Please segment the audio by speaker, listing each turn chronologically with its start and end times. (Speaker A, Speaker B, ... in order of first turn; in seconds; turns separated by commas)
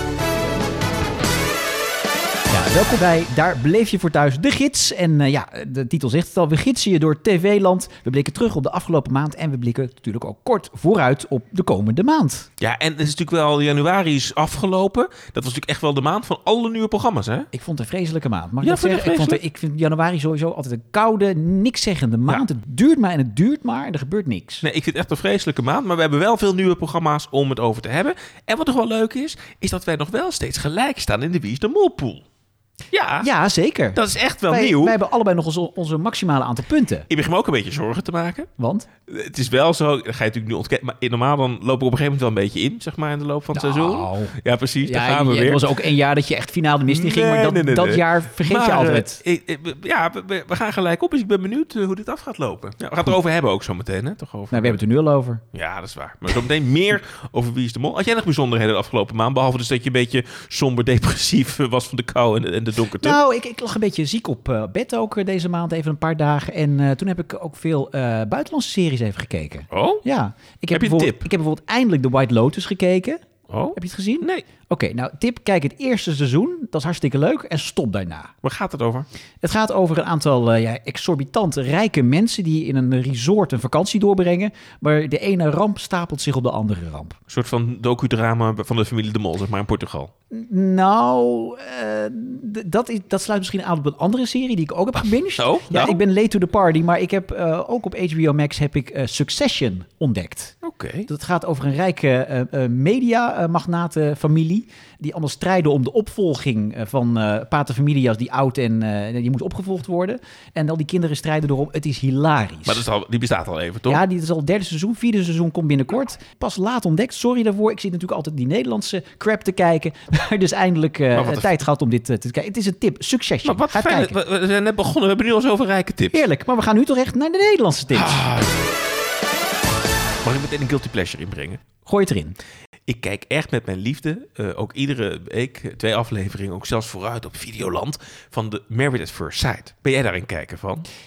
Speaker A: 2.5-12.5, Speaker B: 12.6-17.5, Speaker A: 17.5-24.6, Speaker B: 18.6-19.4, Speaker B: 24.6-32.2, Speaker B: 32.9-33.3, Speaker A: 33.2-37.1, Speaker B: 33.9-35.0, Speaker B: 37.1-38.5, Speaker A: 38.6-38.9, Speaker B: 39.1-45.7, Speaker A: 43.5-49.2, Speaker B: 46.9-54.8, Speaker A: 54.5-55.4, Speaker B: 55.5-63.2, Speaker A: 63.0-78.3, Speaker B: 69.7-70.0, Speaker B: 70.7-71.2, Speaker B: 73.5-74.4, Speaker B: 78.4-79.1, Speaker A: 79.4-87.2, Speaker B: 87.3-90.1, Speaker A: 90.3-100.5, Speaker B: 95.4-96.0, Speaker B: 100.6-101.1, Speaker A: 101.1-112.8, Speaker B: 112.7-114.0, Speaker A: 113.9-124.2, Speaker B: 121.1-121.5, Speaker B: 123.4-126.2, Speaker A: 126.1-128.2, Speaker B: 127.9-128.6, Speaker B: 130.2-131.6, Speaker A: 131.8-132.4, Speaker B: 132.9-140.8